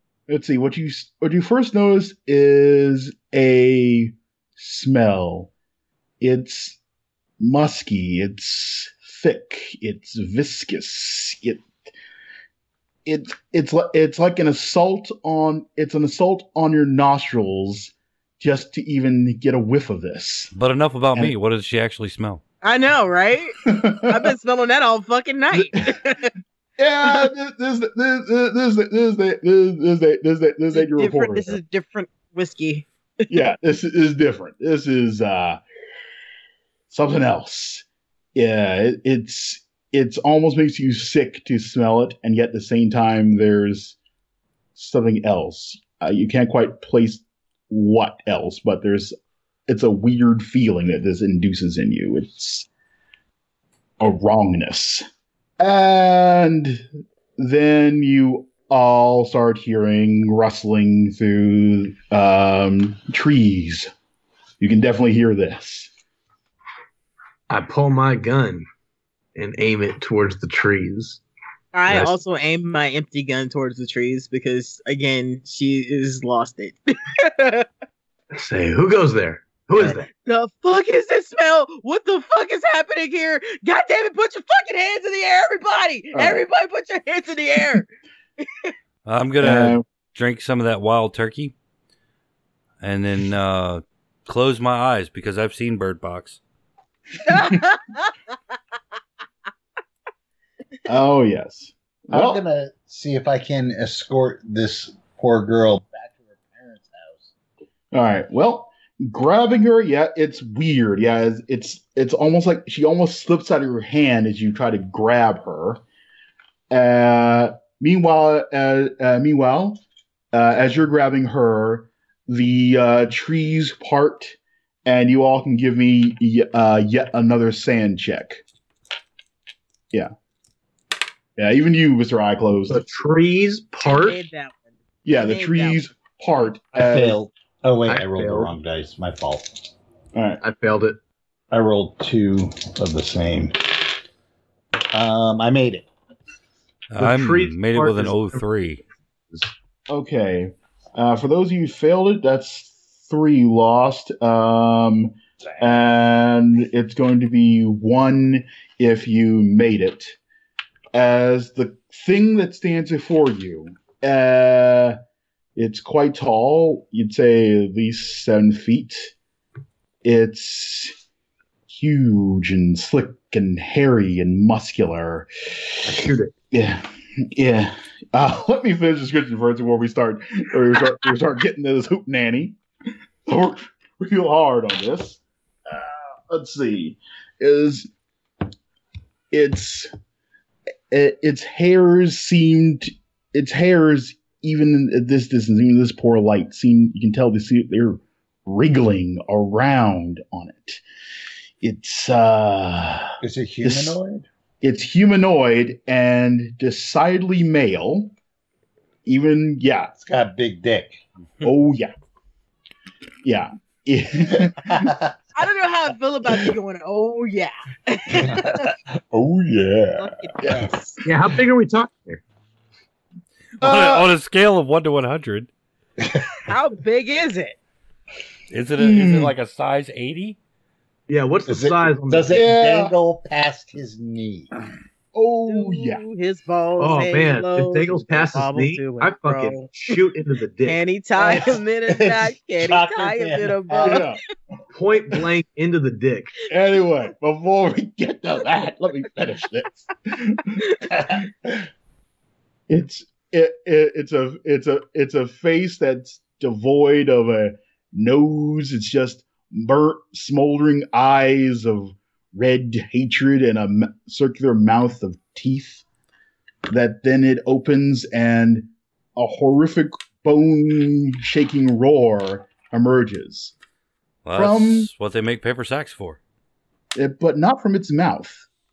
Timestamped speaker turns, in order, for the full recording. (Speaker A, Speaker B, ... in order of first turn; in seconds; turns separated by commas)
Speaker A: 0.3-5.5, Speaker A: 6.2-6.8, Speaker A: 7.4-11.6, Speaker A: 13.1-20.5, Speaker B: 20.5-22.4, Speaker C: 22.6-26.3, Speaker A: 23.6-24.3, Speaker A: 25.5-26.0, Speaker A: 26.8-31.6, Speaker C: 30.7-32.9, Speaker A: 33.3-35.6, Speaker A: 36.9-44.0, Speaker A: 44.7-49.1, Speaker A: 49.7-52.7, Speaker A: 54.0-55.0, Speaker A: 55.6-56.8, Speaker A: 57.4-63.9, Speaker A: 64.6-65.9, Speaker D: 67.5-68.6, Speaker D: 69.3-71.2, Speaker C: 71.7-77.7, Speaker D: 71.9-72.1, Speaker D: 78.3-80.1, Speaker C: 79.8-87.9, Speaker A: 86.1-86.4, Speaker C: 88.4-88.7, Speaker B: 89.0-91.5, Speaker A: 89.4-89.8, Speaker B: 92.8-96.4, Speaker C: 97.3-98.0, Speaker A: 97.3-97.6, Speaker A: 100.8-102.4, Speaker E: 102.1-107.3, Speaker A: 107.9-115.8, Speaker A: 116.7-119.8, Speaker A: 120.3-128.4, Speaker A: 131.4-132.8, Speaker D: 132.7-134.2, Speaker C: 133.8-134.6, Speaker A: 135.0-137.2, Speaker C: 135.2-135.8, Speaker E: 136.7-139.6, Speaker D: 137.9-138.5, Speaker A: 140.1-140.4, Speaker D: 140.4-141.0, Speaker E: 141.5-143.6, Speaker E: 144.9-145.8, Speaker B: 146.9-148.8, Speaker D: 147.0-148.4, Speaker A: 149.9-160.2, Speaker A: 160.9-165.0, Speaker A: 165.6-169.1, Speaker A: 170.0-170.9, Speaker A: 171.7-175.3, Speaker D: 175.8-176.3, Speaker A: 176.5-182.6, Speaker A: 183.3-187.9, Speaker A: 189.3-189.9, Speaker A: 190.9-200.8, Speaker A: 201.6-204.0, Speaker E: 203.2-204.3, Speaker A: 204.6-208.1, Speaker A: 209.0-209.9, Speaker E: 210.0-211.0, Speaker A: 211.4-211.9, Speaker A: 213.2-214.9, Speaker E: 214.6-215.1, Speaker C: 215.3-218.7, Speaker E: 218.2-220.6, Speaker C: 220.0-221.0, Speaker A: 220.4-220.7, Speaker D: 221.0-222.2, Speaker A: 223.6-224.1, Speaker B: 223.6-225.5, Speaker C: 226.4-227.6, Speaker B: 228.5-230.4, Speaker A: 228.8-229.3, Speaker D: 231.1-232.4, Speaker E: 231.5-234.5, Speaker A: 232.3-232.9, Speaker A: 235.1-236.0, Speaker C: 235.5-239.9, Speaker D: 236.8-240.8, Speaker C: 240.6-244.1, Speaker E: 241.2-244.1, Speaker A: 243.8-244.2, Speaker D: 244.7-246.3, Speaker A: 246.5-251.3, Speaker A: 252.7-265.8, Speaker A: 266.7-273.5, Speaker B: 274.2-276.2, Speaker A: 274.3-274.9, Speaker A: 276.9-278.5